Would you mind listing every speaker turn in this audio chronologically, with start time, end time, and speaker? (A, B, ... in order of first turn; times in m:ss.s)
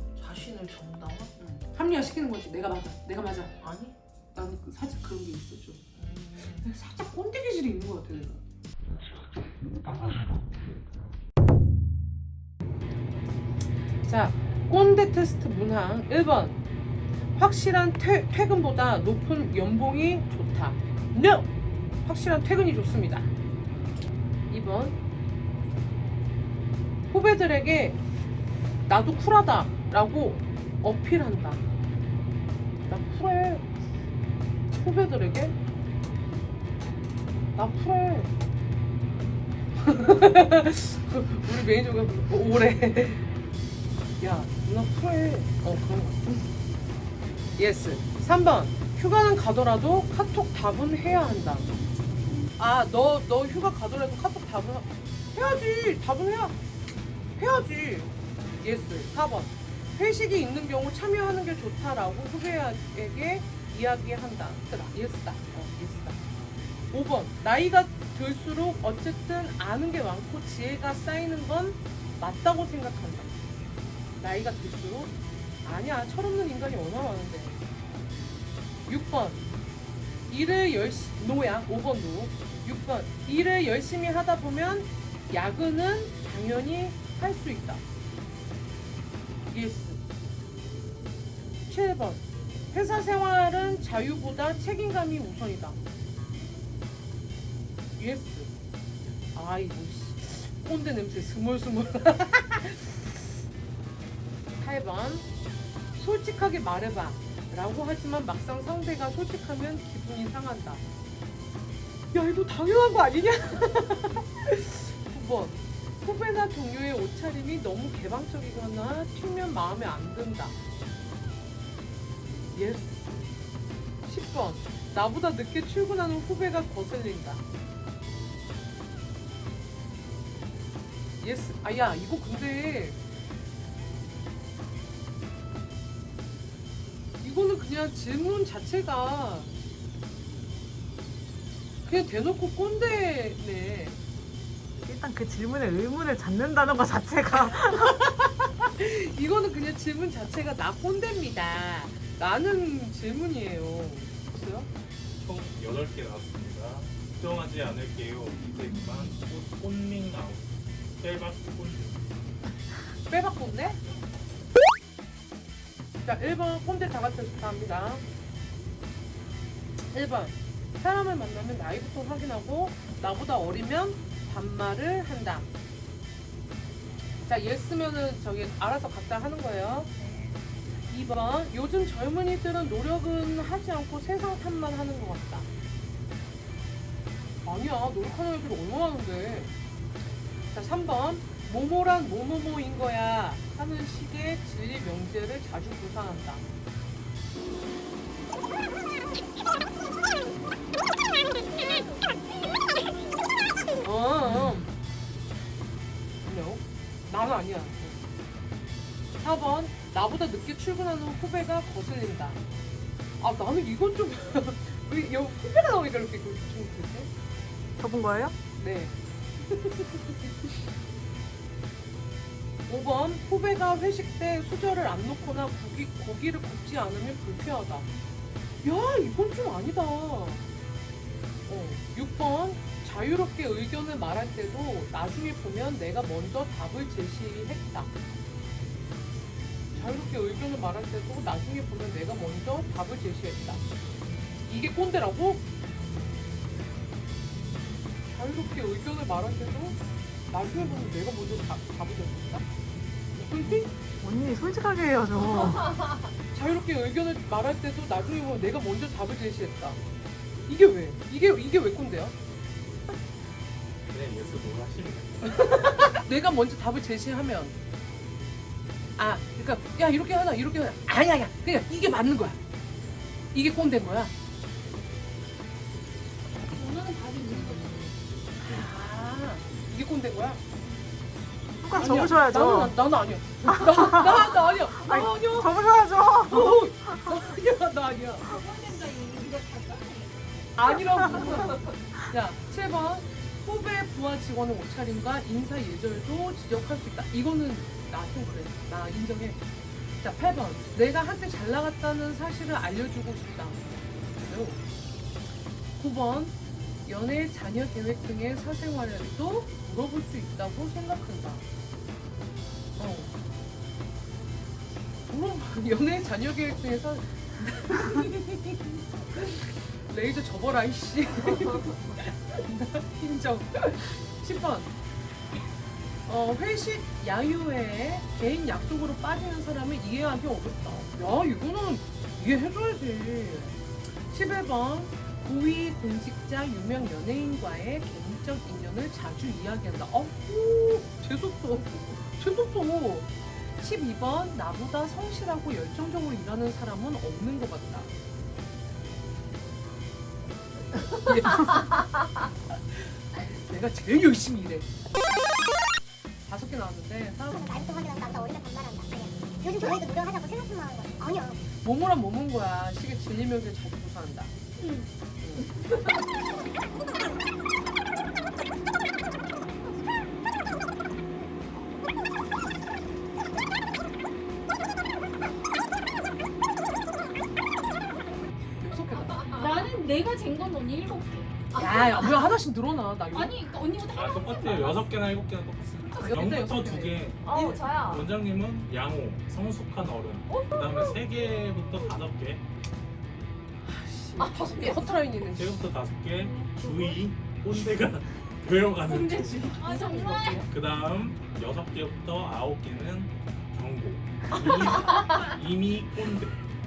0:00.2-0:08.4 A
0:14.0-0:16.6 A
0:17.3-0:21.5 A
0:22.0-0:23.3 A
0:24.5-0:25.0 A
0:27.1-0:28.0 A
0:28.9-0:31.6 A
0:32.9-0:33.7 A
0:34.7-0:35.6 A
0:37.6-0:38.3 A
0:39.8-0:43.3 A
0:44.2-0:46.5 A
0:47.6-0:51.7 A
0:52.6-0:56.6 A
0:57.4-1:06.2 A
1:06.9-1:13.4 A
1:14.2-1:17.6 A
1:18.9-1:19.4 A
1:20.3-1:27.8 A
1:29.5-1:30.0 A
1:31.7-1:35.8 A
1:38.0-1:38.5 A
1:39.3-1:43.3 A
1:44.6-1:45.3 A
1:46.0-1:50.8 A
1:52.1-2:00.6 A
2:02.5-2:03.2 A
2:04.1-2:07.4 A
2:11.2-2:13.0 A
2:17.2-2:19.5 A
2:21.8-2:24.0 A
2:24.8-2:28.0 B
2:27.4-2:34.7 A
2:35.2-2:42.0 C
2:43.1-2:43.8 A
2:46.0-2:48.0 A
2:49.9-2:55.5 A
2:57.2-2:59.9 A
3:00.9-3:05.5 A
3:07.4-3:09.5 A
3:10.5-3:16.5 A
3:23.8-3:24.7 A
3:26.2-3:28.0 A
3:29.2-3:32.4 A
3:33.2-3:37.1 A
3:37.8-3:38.3 B
3:38.6-3:39.0 A
3:39.5-3:40.3 A
3:42.7-3:47.9 A
3:48.6-3:50.4 A
3:51.5-3:57.9 A
3:59.7-4:03.6 A
4:04.5-4:05.4 A
4:08.1-4:12.5 A
4:13.1-4:13.7 A
4:14.0-4:15.9 B
4:16.3-4:19.8 A
4:20.5-4:22.2 A
4:23.9-4:25.9 C
4:25.3-4:27.6 A
4:29.0-4:32.4 A
4:33.3-4:34.1 A
4:36.4-4:38.0 D
4:37.6-4:40.4 A
4:41.6-4:42.8 B
4:41.8-4:45.6 A
4:43.7-4:46.9 B
4:46.2-4:48.3 A
4:48.2-4:50.2 D
4:50.6-4:59.4 A
4:51.1-4:51.7 D
5:00.0-5:03.6 A
5:04.2-5:04.6 A
5:05.8-5:11.4 A
5:12.8-5:13.1 A
5:15.1-5:24.7 A
5:26.1-5:47.9 A
5:50.9-5:54.7 A
5:56.3-5:57.4 A
5:57.3-6:01.4 E
6:01.6-6:04.3 A
6:05.2-6:05.5 A
6:18.6-6:19.4 A
6:19.2-6:22.2 D
6:21.5-6:23.4 A
6:23.1-6:24.9 D
6:23.8-6:32.4 C
6:26.0-6:27.6 A
6:27.2-6:28.1 D
6:30.3-6:31.0 D
6:33.6-6:35.6 A
6:34.2-6:35.0 D
6:35.2-6:46.4 C
6:36.2-6:37.0 D
6:38.9-6:40.4 D
6:39.8-6:40.4 A
6:44.9-6:45.2 D